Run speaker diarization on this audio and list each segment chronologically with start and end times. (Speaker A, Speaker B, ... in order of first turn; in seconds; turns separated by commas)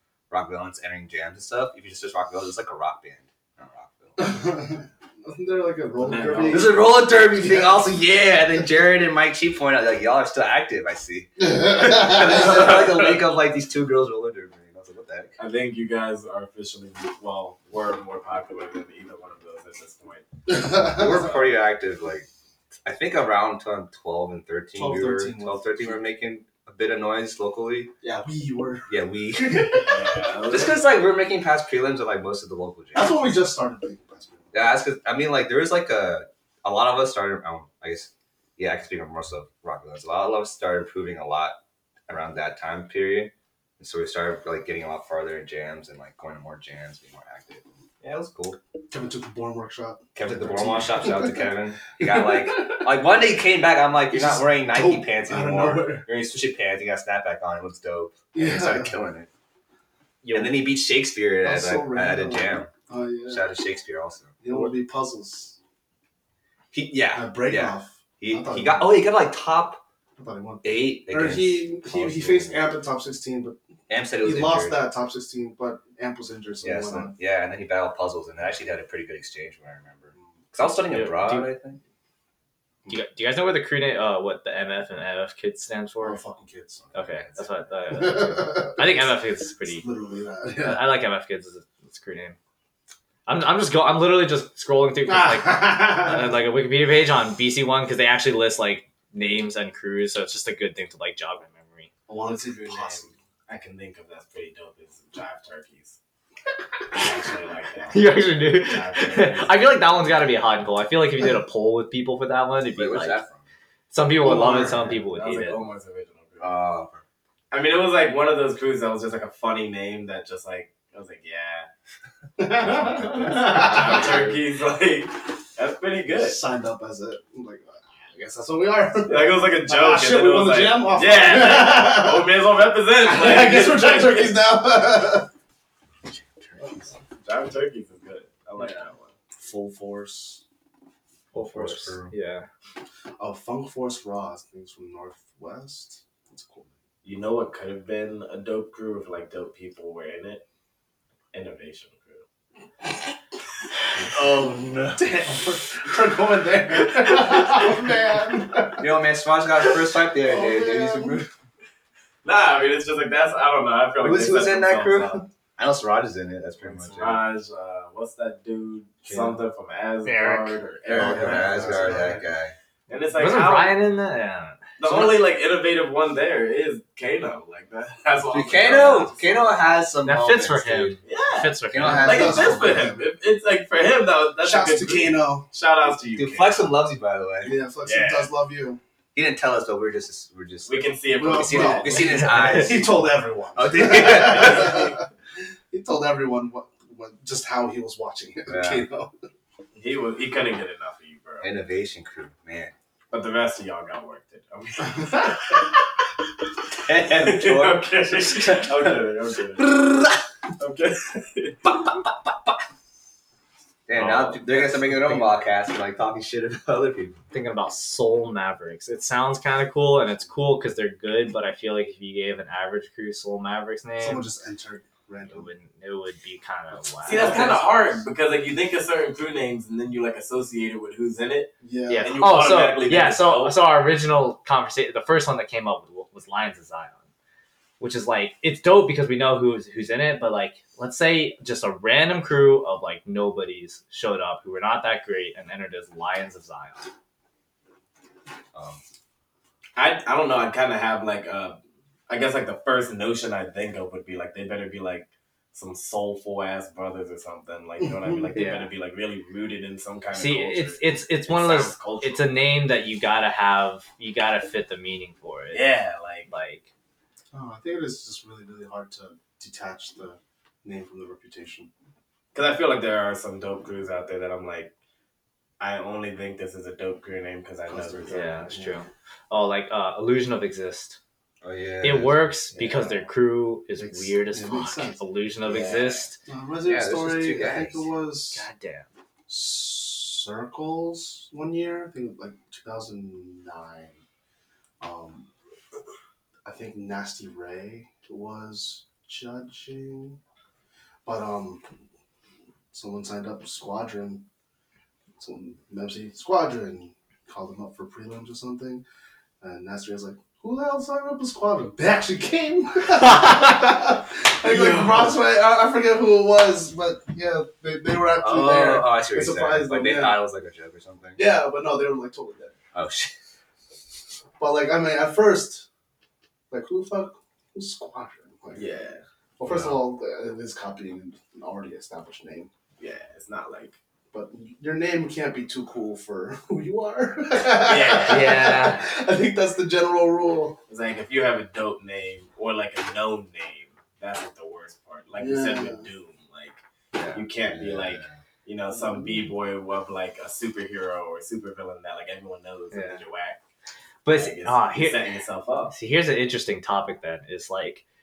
Speaker A: 0.3-4.4, Speaker B: 4.2-7.9, Speaker C: 6.0-6.8, Speaker A: 6.3-15.3, Speaker B: 11.4-12.8, Speaker C: 15.4-20.3, Speaker B: 20.5-21.2, Speaker A: 20.7-22.2, Speaker A: 22.8-27.9, Speaker B: 24.7-26.1, Speaker B: 28.0-30.0, Speaker A: 28.9-29.8, Speaker C: 29.8-30.9, Speaker A: 30.5-33.3, Speaker B: 32.9-34.5, Speaker A: 34.5-48.6, Speaker B: 48.9-53.1, Speaker A: 50.1-59.3, Speaker B: 54.1-56.1, Speaker B: 58.3-58.9, Speaker D: 60.2-60.6, Speaker A: 60.3-62.7, Speaker B: 61.4-63.5, Speaker A: 63.3-64.3, Speaker B: 64.4-65.6, Speaker A: 66.7-69.8, Speaker B: 67.1-69.0, Speaker B: 70.2-73.6, Speaker A: 70.6-72.6, Speaker A: 73.9-74.8, Speaker B: 74.2-77.1, Speaker A: 76.6-81.8, Speaker D: 80.9-81.5, Speaker D: 82.9-86.2, Speaker B: 86.0-86.9, Speaker A: 86.9-87.4, Speaker D: 86.9-89.8, Speaker B: 87.9-89.1, Speaker B: 89.7-90.9, Speaker D: 90.6-92.4, Speaker D: 93.3-101.9, Speaker B: 95.1-96.2, Speaker B: 102.1-103.1, Speaker C: 102.5-106.0, Speaker C: 106.9-110.0, Speaker D: 107.9-113.2, Speaker A: 112.7-113.4, Speaker D: 113.9-115.6, Speaker B: 114.2-114.9, Speaker C: 115.0-116.6, Speaker A: 116.4-117.0, Speaker C: 117.5-121.7, Speaker B: 122.4-124.2, Speaker C: 123.0-126.4, Speaker A: 123.1-124.0, Speaker B: 126.1-132.4, Speaker C: 129.1-134.3, Speaker B: 133.0-135.3, Speaker C: 137.2-139.1, Speaker B: 139.4-140.4, Speaker D: 141.3-142.4, Speaker A: 141.3-142.1, Speaker B: 143.2-146.7, Speaker C: 147.0-150.4, Speaker C: 151.3-152.2, Speaker B: 154.1-158.9, Speaker A: 154.2-154.9, Speaker A: 158.8-161.3, Speaker B: 160.1-161.3, Speaker C: 162.2-165.2, Speaker A: 164.0-167.3, Speaker C: 166.6-172.2, Speaker A: 169.1-169.4, Speaker D: 170.0-170.6, Speaker A: 170.9-172.5, Speaker B: 170.9-172.2, Speaker C: 172.9-173.7, Speaker D: 173.2-174.7, Speaker C: 174.8-179.7, Speaker A: 178.3-181.0, Speaker D: 180.0-182.3, Speaker C: 181.0-186.7, Speaker A: 181.7-182.9, Speaker B: 181.8-183.1, Speaker B: 184.4-185.4, Speaker A: 186.1-187.6, Speaker B: 187.4-188.8, Speaker C: 187.8-188.3, Speaker A: 189.1-194.9, Speaker C: 190.7-192.2, Speaker B: 191.2-195.0, Speaker D: 192.2-192.6, Speaker B: 195.7-199.1, Speaker A: 198.5-198.8, Speaker C: 199.7-201.5, Speaker A: 201.4-202.7, Speaker C: 203.1-205.7, Speaker A: 206.9-208.7, Speaker C: 207.0-210.1, Speaker C: 210.6-211.6, Speaker A: 213.9-217.2, Speaker D: 214.0-215.2, Speaker D: 217.3-224.2, Speaker B: 224.0-225.5, Speaker D: 225.3-228.0, Speaker C: 227.0-233.6, Speaker B: 227.1-227.4, Speaker B: 231.6-232.2, Speaker D: 231.9-237.0, Speaker D: 237.8-246.9, Speaker A: 248.5-248.8, Speaker C: 249.8-262.3, Speaker D: 258.3-258.7, Speaker D: 260.1-265.7, Speaker C: 265.5-266.3, Speaker D: 266.2-266.7, Speaker B: 267.3-271.7, Speaker C: 272.3-274.7, Speaker C: 275.6-278.5, Speaker B: 277.7-278.8, Speaker D: 278.1-281.0, Speaker A: 281.4-282.6, Speaker D: 281.8-286.2, Speaker B: 283.8-285.0, Speaker C: 285.4-286.1, Speaker B: 286.2-288.4, Speaker A: 286.6-287.9, Speaker D: 288.3-288.9, Speaker B: 289.3-294.0, Speaker B: 294.8-295.3, Speaker B: 296.4-300.2, Speaker B: 301.0-301.6, Speaker B: 302.7-304.2, Speaker B: 305.2-308.8, Speaker B: 309.4-320.2, Speaker C: 314.4-315.1, Speaker A: 318.2-321.2, Speaker B: 321.1-322.6, Speaker A: 322.7-323.1, Speaker B: 324.4-325.6, Speaker B: 326.5-328.7, Speaker C: 328.5-329.0, Speaker B: 329.4-332.5, Speaker A: 329.4-329.8, Speaker C: 332.8-333.8, Speaker B: 334.1-340.6, Speaker C: 337.4-338.4, Speaker D: 338.0-338.8, Speaker C: 340.7-346.6, Speaker B: 345.2-345.9, Speaker A: 346.9-348.1, Speaker C: 347.1-353.4, Speaker D: 352.7-353.0, Speaker D: 354.0-355.0, Speaker C: 354.1-355.7, Speaker D: 355.7-357.8